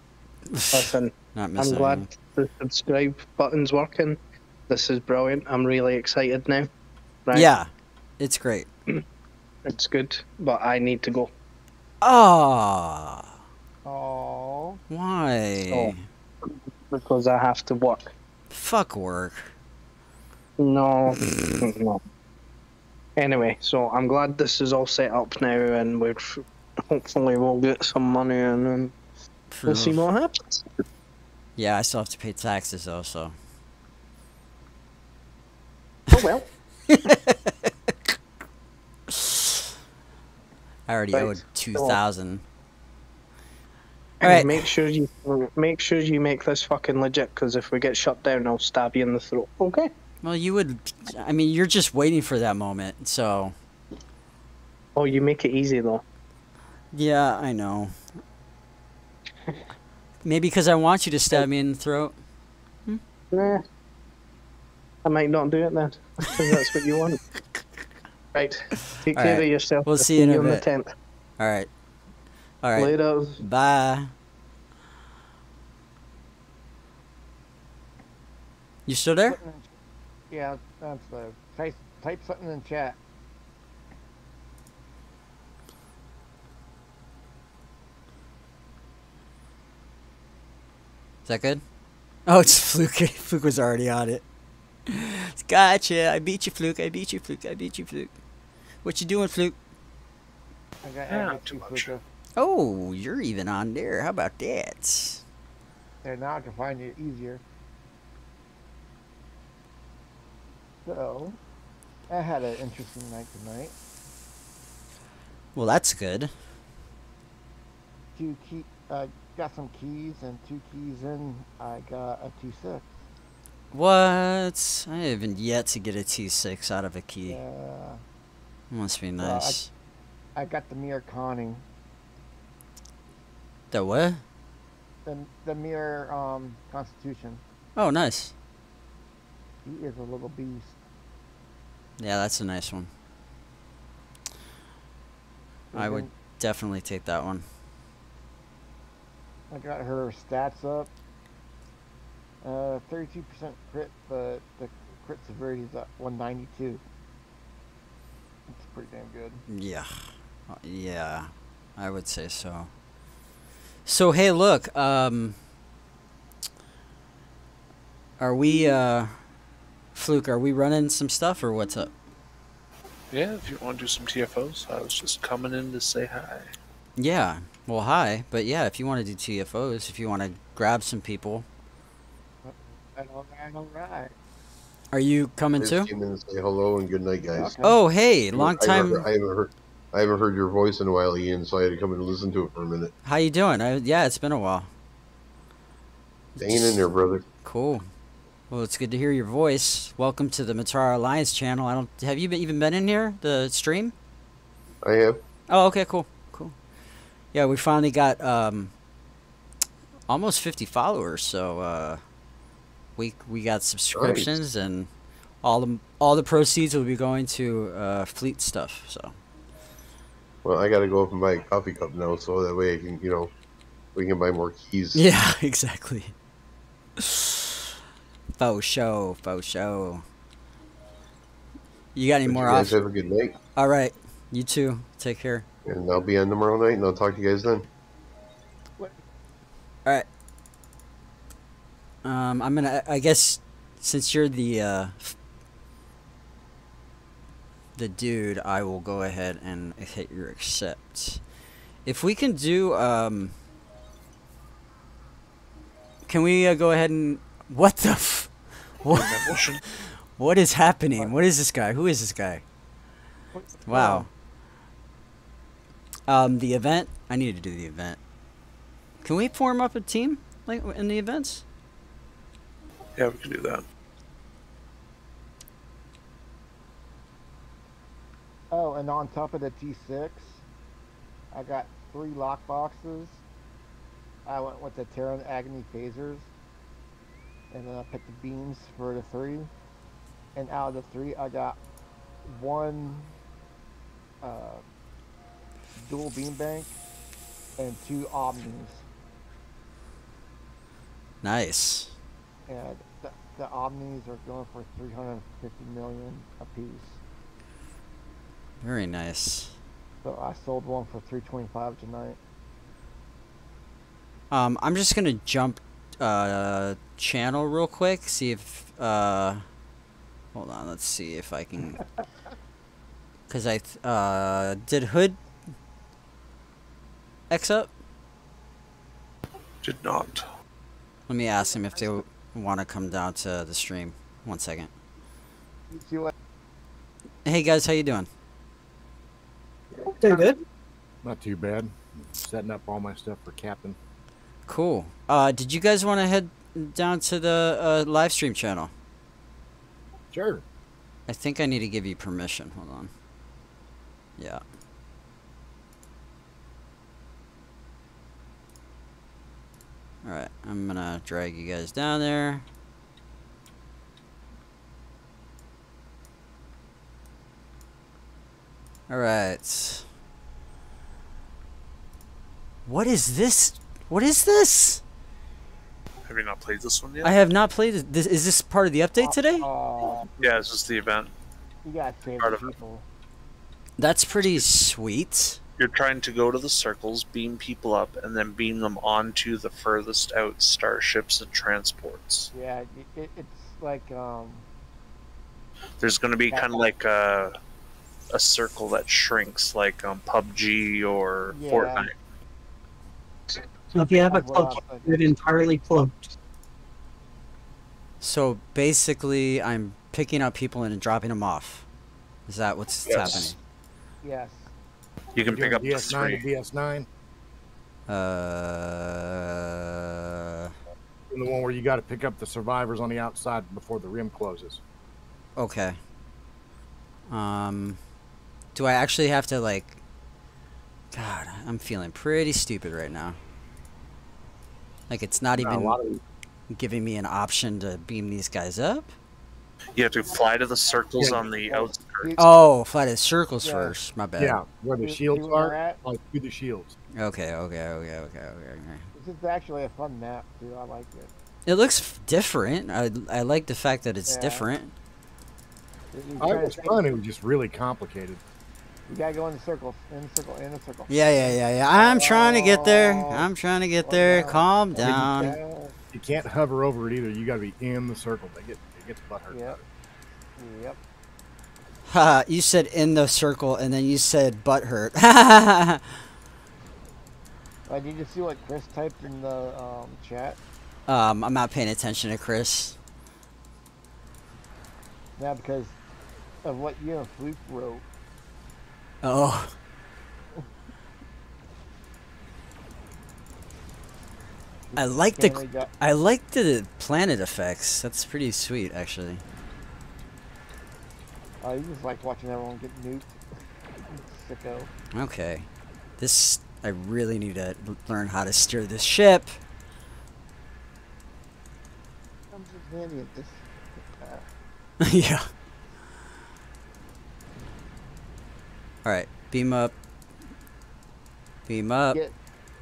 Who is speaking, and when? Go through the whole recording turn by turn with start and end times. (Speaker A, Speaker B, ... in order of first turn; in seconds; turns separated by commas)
Speaker A: 0.5-2.1, Speaker B: 0.7-6.7, Speaker A: 7.3-8.7, Speaker B: 9.7-11.3, Speaker A: 12.0-13.3, Speaker C: 13.8-14.8, Speaker A: 14.9-16.0, Speaker B: 15.6-15.9, Speaker B: 16.4-18.1, Speaker A: 18.5-19.5, Speaker B: 20.6-22.0, Speaker B: 23.2-28.9, Speaker A: 29.5-30.0, Speaker B: 29.7-30.7, Speaker A: 31.6-33.3, Speaker B: 36.1-36.5, Speaker A: 36.9-37.9, Speaker A: 39.1-39.6, Speaker A: 40.9-42.4, Speaker B: 41.1-42.0, Speaker B: 44.2-49.9, Speaker A: 44.2-44.7, Speaker A: 50.2-53.5, Speaker B: 55.0-56.0, Speaker A: 56.9-58.0, Speaker A: 60.2-62.2, Speaker B: 63.3-63.6, Speaker B: 65.0-67.2, Speaker B: 68.3-70.9, Speaker A: 69.1-70.7, Speaker A: 71.4-71.7, Speaker A: 72.6-74.1, Speaker B: 72.8-73.4, Speaker A: 78.9-79.4, Speaker C: 79.3-79.7, Speaker C: 80.3-83.0, Speaker A: 91.3-91.6, Speaker A: 92.3-94.2, Speaker A: 94.9-98.1, Speaker A: 98.8-99.6, Speaker C: 100.8-102.0, Speaker D: 101.1-101.9, Speaker A: 102.4-105.2, Speaker C: 106.0-107.4, Speaker C: 110.8-111.4, Speaker C: 112.1-113.8, Speaker A: 115.5-116.3, Speaker C: 118.2-122.9, Speaker A: 123.7-127.4, Speaker C: 127.3-128.0, Speaker A: 128.7-129.7, Speaker C: 129.2-129.6, Speaker C: 130.4-131.7, Speaker A: 133.7-134.2, Speaker C: 135.1-137.4, Speaker A: 137.8-138.3, Speaker C: 139.6-140.8, Speaker A: 142.0-142.9, Speaker C: 145.7-146.1, Speaker A: 145.8-147.4, Speaker C: 149.5-150.9, Speaker C: 152.4-156.8, Speaker C: 158.5-159.4, Speaker A: 159.5-162.7, Speaker A: 163.9-165.4, Speaker A: 168.2-169.2, Speaker A: 169.9-171.9, Speaker D: 173.1-176.5, Speaker A: 177.0-181.4, Speaker C: 182.4-184.2, Speaker A: 184.9-185.9, Speaker E: 185.6-187.6, Speaker C: 187.3-187.8, Speaker A: 187.6-189.1, Speaker E: 188.3-192.9, Speaker A: 193.0-194.7, Speaker A: 196.4-196.8, Speaker E: 196.4-197.2, Speaker A: 197.4-197.9, Speaker A: 198.5-203.9, Speaker E: 204.8-205.2, Speaker A: 205.5-206.6, Speaker A: 207.3-208.7, Speaker A: 210.1-212.0, Speaker A: 213.0-214.9, Speaker E: 213.9-214.3, Speaker A: 215.4-219.2, Speaker E: 220.4-223.3, Speaker E: 223.9-225.1, Speaker A: 224.9-226.2, Speaker A: 227.0-227.4, Speaker A: 228.4-230.0, Speaker A: 231.9-232.8, Speaker E: 232.3-233.4, Speaker A: 233.6-235.4, Speaker E: 235.7-237.7, Speaker C: 238.8-239.0, Speaker A: 242.0-245.2, Speaker A: 247.8-251.2, Speaker A: 251.8-253.3, Speaker A: 256.1-262.4, Speaker D: 258.9-259.6, Speaker C: 263.3-264.1, Speaker A: 263.7-264.1, Speaker A: 266.1-268.0, Speaker A: 269.0-271.4, Speaker D: 273.0-273.6, Speaker C: 278.5-280.4, Speaker C: 281.3-283.2, Speaker C: 284.2-286.3, Speaker C: 287.5-289.5, Speaker C: 290.3-291.6, Speaker C: 292.2-293.1, Speaker C: 294.2-294.6, Speaker C: 295.8-296.8, Speaker C: 297.6-298.9, Speaker A: 301.2-301.9, Speaker C: 302.5-307.0, Speaker A: 308.6-309.6, Speaker C: 310.0-312.2, Speaker A: 314.3-319.4, Speaker A: 320.3-321.8, Speaker A: 323.3-325.2, Speaker A: 327.3-327.7, Speaker D: 329.6-330.2, Speaker A: 331.1-334.7, Speaker C: 331.5-332.0, Speaker C: 335.7-336.1, Speaker A: 337.2-338.1, Speaker C: 339.9-340.2, Speaker F: 340.0-340.4, Speaker G: 341.0-343.8, Speaker A: 344.5-348.7, Speaker G: 350.1-350.4, Speaker A: 351.1-352.9, Speaker A: 360.0-362.4, Speaker A: 368.9-369.9, Speaker A: 372.7-374.8, Speaker D: 376.1-377.2, Speaker A: 377.0-379.5, Speaker C: 379.0-380.1, Speaker D: 380.2-381.1, Speaker C: 381.6-382.9, Speaker D: 382.2-382.5, Speaker A: 383.8-385.4, Speaker D: 385.6-392.3, Speaker C: 392.3-394.5, Speaker D: 395.8-397.3, Speaker C: 396.3-396.6, Speaker D: 398.1-401.9, Speaker C: 401.3-401.9, Speaker F: 403.7-406.1, Speaker C: 404.1-405.0, Speaker A: 408.0-411.7, Speaker A: 412.3-413.4, Speaker D: 412.9-413.3, Speaker C: 414.0-414.5, Speaker D: 415.1-416.2, Speaker G: 415.2-416.9, Speaker A: 417.9-420.5, Speaker G: 421.1-424.6, Speaker A: 425.4-425.8, Speaker A: 427.1-427.8, Speaker A: 428.6-429.8, Speaker A: 430.9-433.2, Speaker A: 434.9-435.8, Speaker G: 435.4-436.0, Speaker A: 436.5-438.9, Speaker D: 439.7-442.1, Speaker C: 441.5-442.4, Speaker A: 442.2-444.4, Speaker C: 443.4-443.8, Speaker G: 444.2-446.8, Speaker C: 444.8-445.8, Speaker A: 446.9-448.9, Speaker C: 448.9-451.1, Speaker A: 451.4-454.7, Speaker C: 454.1-454.5, Speaker C: 455.9-456.8, Speaker G: 456.2-458.2, Speaker C: 458.9-465.8, Speaker A: 460.9-465.4, Speaker G: 464.8-465.1, Speaker G: 465.9-469.6, Speaker C: 469.3-469.6, Speaker C: 470.4-470.8, Speaker A: 471.9-476.0, Speaker C: 477.7-480.4, Speaker A: 480.9-482.8, Speaker C: 485.2-485.8, Speaker C: 486.4-487.8, Speaker A: 489.0-489.5, Speaker C: 494.7-495.7, Speaker A: 494.8-499.2, Speaker C: 501.4-503.2, Speaker C: 503.8-504.7, Speaker A: 504.9-505.5, Speaker A: 506.0-509.4, Speaker C: 512.3-514.3, Speaker A: 514.8-515.3, Speaker A: 518.9-519.7, Speaker A: 521.5-522.0